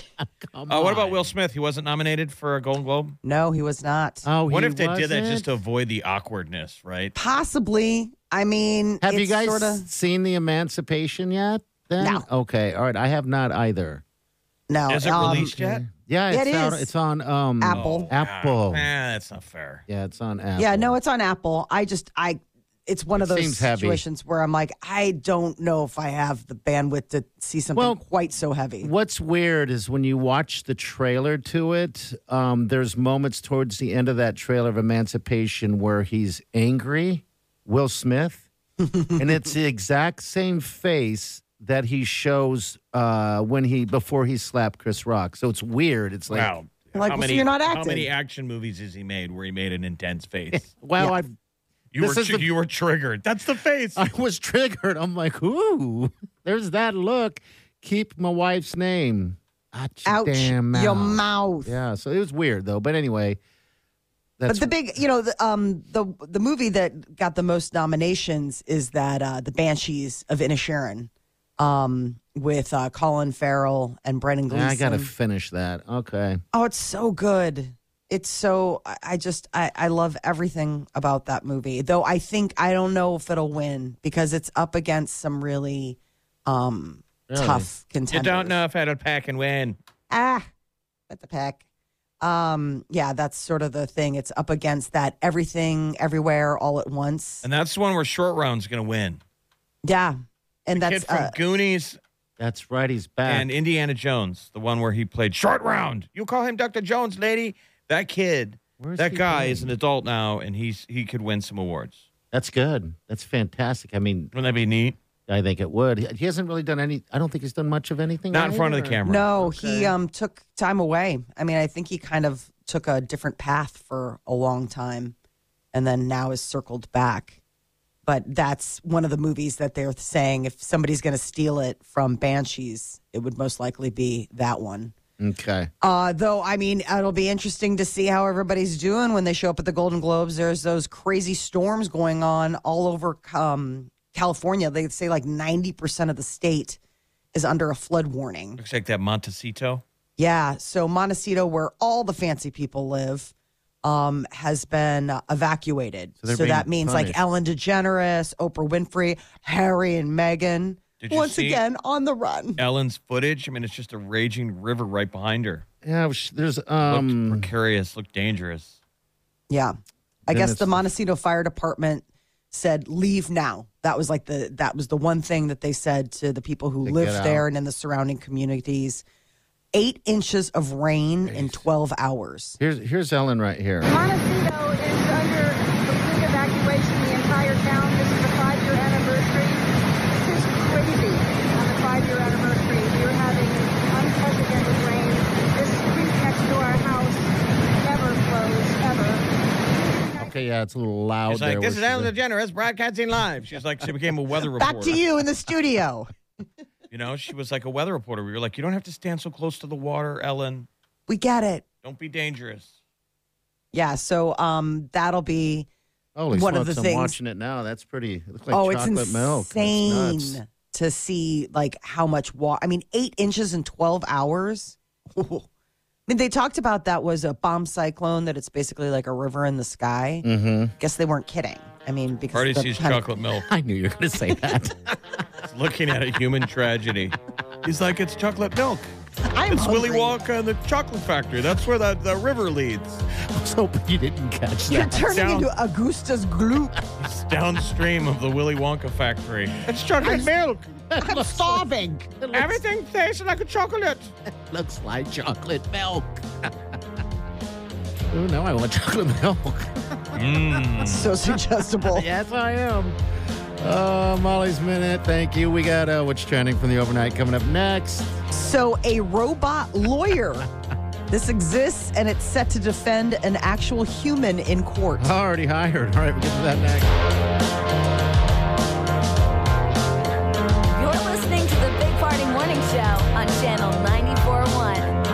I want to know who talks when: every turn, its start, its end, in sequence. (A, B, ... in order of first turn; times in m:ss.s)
0:00.2-0:01.3 A
0:00.7-0:03.2 B
0:03.2-0:04.3 C
0:04.2-0:05.5 A
0:04.5-0:07.1 B
0:07.1-0:09.9 C
0:09.0-0:14.0 A
0:12.0-0:12.2 C
0:14.7-0:15.5 C
0:14.9-0:15.8 B
0:15.1-0:18.8 A
0:16.3-0:16.9 C
0:17.6-0:18.1 C
0:17.7-0:19.8 B
0:19.9-0:21.0 A
0:20.6-0:28.9 C
0:23.1-0:24.0 A
0:28.8-0:38.4 A
0:38.9-0:39.2 C
0:39.2-0:46.5 A
0:46.3-0:50.7 B
0:46.9-0:48.1 C
0:50.5-0:51.3 A
0:51.9-0:54.0 B
0:52.0-0:52.5 A
0:54.0-1:03.4 A
1:00.0-1:01.8 C
1:04.4-1:04.7 A
1:04.5-1:15.1 C
1:14.5-1:16.4 A
1:16.5-1:28.6 C
1:27.3-1:27.7 A
1:28.1-1:29.8 B
1:30.1-1:30.5 C
1:31.1-1:31.6 C
1:32.2-1:37.4 C
1:37.4-1:39.2 B
1:39.8-1:41.3 C
1:40.7-1:42.0 B
1:42.4-1:43.5 A
1:43.2-1:52.0 B
1:48.8-1:49.7 A
1:52.3-1:54.3 A
1:54.3-1:55.0 B
1:55.3-1:59.9 A
1:58.3-1:59.4 B
1:59.0-2:05.1 C
2:05.7-2:07.4 C
2:08.0-2:14.9 C
2:15.2-2:15.7 A
2:15.8-2:26.8 C
2:27.3-2:28.6 C
2:28.6-2:29.8 B
2:30.2-2:33.3 C
2:33.8-2:42.6 C
2:36.2-2:37.2 A
2:41.0-2:41.6 B
2:42.6-2:45.6 B
2:45.8-2:47.5 A
2:46.8-2:48.8 B
2:49.5-2:49.7 C
2:50.3-2:50.9 A
2:50.3-2:59.0 C
2:56.8-2:57.5 A
2:59.7-3:02.6 C
3:01.2-3:01.6 A
3:02.6-3:04.0 A
3:03.8-3:20.4 D
3:20.2-3:22.1 A
3:21.3-3:25.0 B
3:24.6-3:26.1 C
3:26.9-3:30.7 B
3:31.1-3:31.6 C
3:31.8-3:32.7 B
3:33.7-3:35.7 C
3:36.1-3:40.4 A
3:36.3-3:37.2 C
3:38.5-3:45.5 C
3:46.1-3:50.2 C
3:50.2-3:50.7 A
3:50.8-3:53.0 C
3:52.3-3:53.5 B
3:53.3-3:55.0 A
3:55.4-3:58.9 B
3:59.3-4:00.1 C
3:59.5-4:03.0 B
4:03.2-4:05.2 A
4:04.7-4:06.7 C
4:05.1-4:05.5 B
4:07.0-4:10.6 B
4:10.0-4:12.6 A
4:11.0-4:12.1 C
4:12.3-4:14.1 B
4:14.3-4:16.5 A
4:18.1-4:20.2 A
4:20.1-4:21.1 B
4:20.8-4:22.0 C
4:21.8-4:23.0 A
4:23.6-4:28.2 A
4:28.3-4:30.5 C
4:31.1-4:35.1 C
4:35.0-4:36.9 A
4:40.7-4:44.9 E